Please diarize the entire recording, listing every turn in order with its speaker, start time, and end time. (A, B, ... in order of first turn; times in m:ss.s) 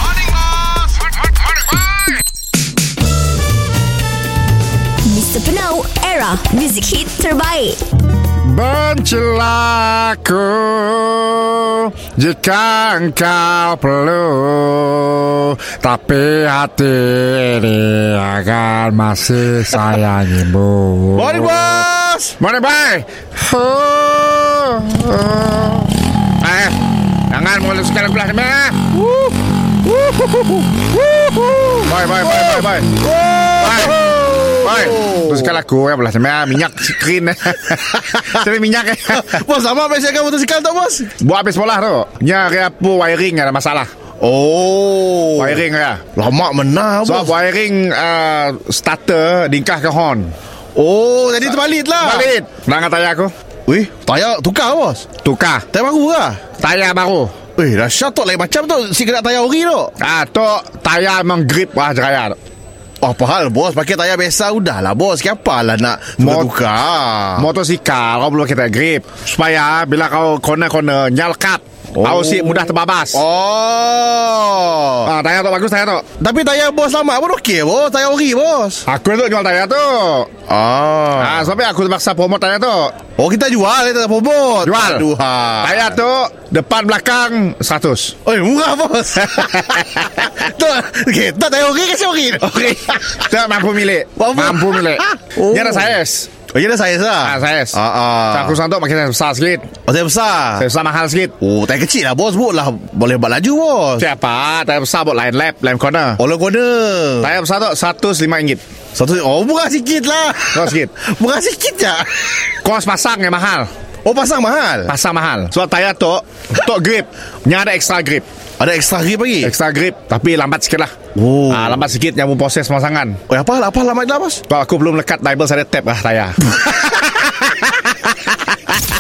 0:05.0-0:07.8 A
0:08.4-0:21.8 B
0:21.2-0:22.4 C
0:22.4-0:26.8 B
0:27.3-0:28.9 B
0:28.9-0:29.4 C
0:30.0-0:35.6 C
0:31.8-0:32.9 B
0:33.6-0:39.4 B
0:39.1-0:41.1 C
0:41.2-0:43.9 B
0:44.2-0:47.4 C
0:45.4-0:46.0 B
0:47.0-0:50.3 B
0:50.8-0:52.3 C
0:52.0-0:53.3 B
0:53.7-0:55.1 C
0:55.2-0:55.6 B
0:55.7-0:56.5 C
0:56.5-0:57.3 B
0:57.6-0:59.9 C
1:00.0-1:02.4 B
1:03.0-1:07.5 C
1:06.2-1:06.5 B
1:07.4-1:13.2 B
1:12.0-1:15.1 C
1:15.0-1:16.0 B
1:16.2-1:18.8 C
1:18.9-1:20.3 B
1:20.5-1:21.5 C
1:21.2-1:23.0 B
1:23.1-1:25.9 C
1:24.6-1:25.1 B
1:25.6-1:28.2 B
1:28.2-1:33.3 C
1:32.7-1:36.3 B
1:34.2-1:38.6 C
1:37.2-1:37.8 B
1:38.3-1:39.7 B
1:39.8-1:40.7 C
1:40.6-1:41.3 B
1:41.4-1:44.1 C
1:44.0-1:46.2 B
1:46.2-1:47.3 C
1:47.2-1:48.6 B
1:49.0-1:52.4 C
1:50.5-1:50.9 B
1:52.6-1:53.7 B
1:54.0-1:54.9 C
1:54.9-1:58.3 B
1:58.6-1:59.5 C
1:59.4-2:01.0 B
2:01.1-2:01.9 C
2:01.5-2:03.2 B
2:03.3-2:04.4 C
2:04.5-2:08.1 B